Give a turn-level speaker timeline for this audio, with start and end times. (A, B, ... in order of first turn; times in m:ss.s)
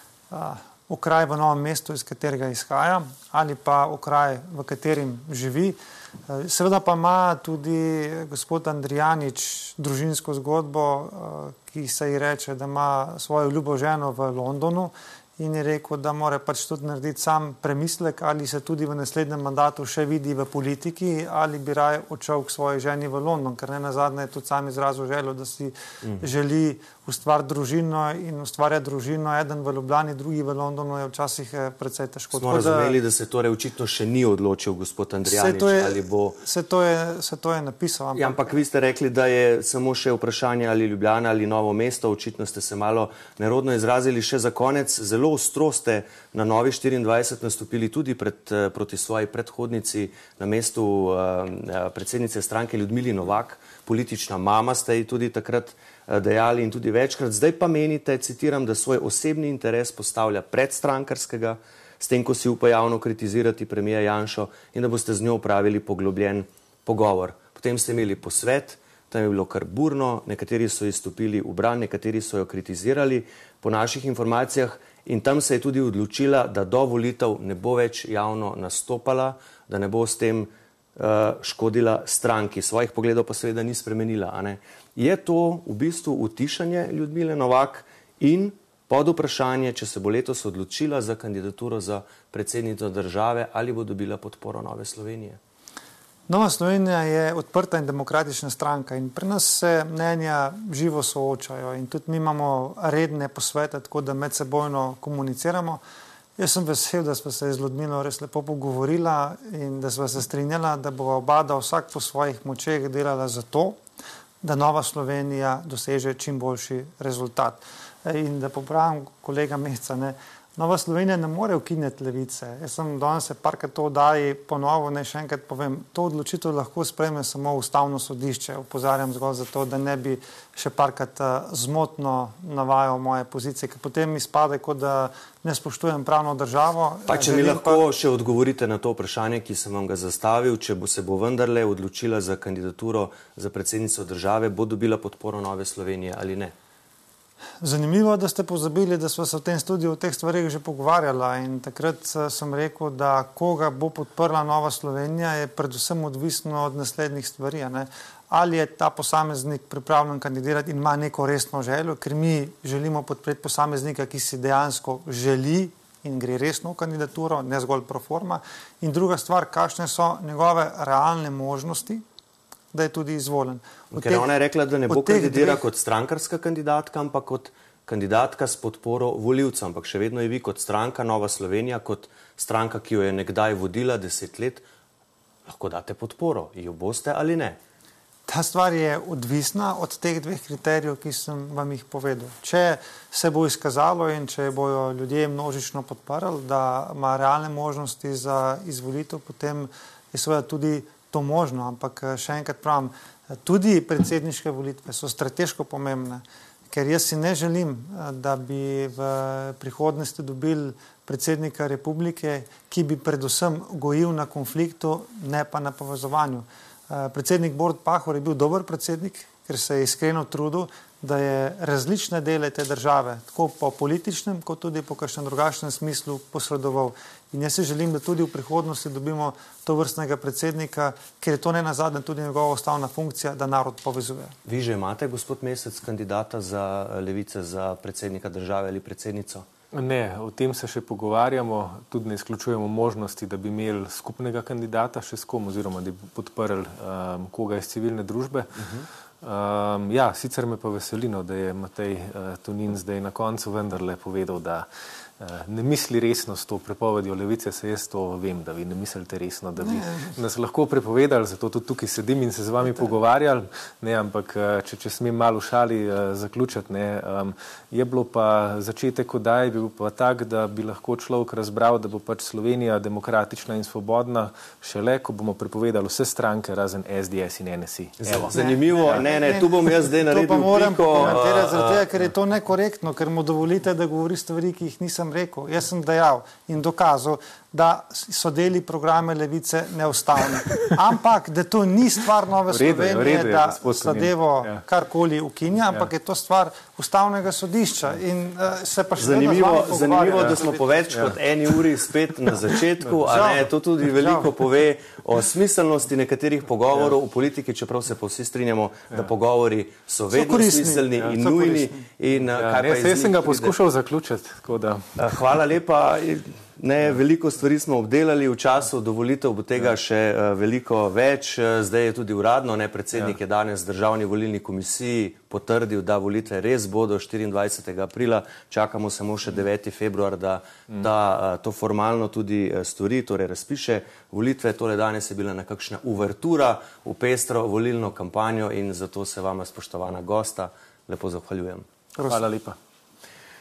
0:00.3-0:05.8 A
0:06.3-0:33.0 A
0:32.3-0:36.4 B
0:35.2-0:38.5 A
0:38.2-1:35.4 B
1:36.3-1:45.8 A
1:46.4-1:53.8 A
1:54.4-2:17.8 A
2:17.1-2:26.5 B
2:27.6-2:52.0 A
2:52.7-2:54.3 A
2:53.9-3:04.6 B
2:54.9-2:55.6 A
3:05.5-3:07.6 B
3:08.3-3:54.4 A
3:54.5-3:59.4 B
3:59.7-4:14.7 C
4:15.2-4:39.0 C
4:19.6-4:20.1 A
4:38.0-4:41.9 B
4:38.3-5:00.9 A
4:52.5-4:54.6 C
4:59.0-5:13.6 B
5:00.9-5:01.2 C
5:02.3-5:03.3 C
5:03.1-5:04.3 A
5:10.1-5:11.8 A
5:12.3-5:14.8 C
5:15.0-5:41.6 B
5:42.0-5:42.2 A
5:42.1-5:42.6 C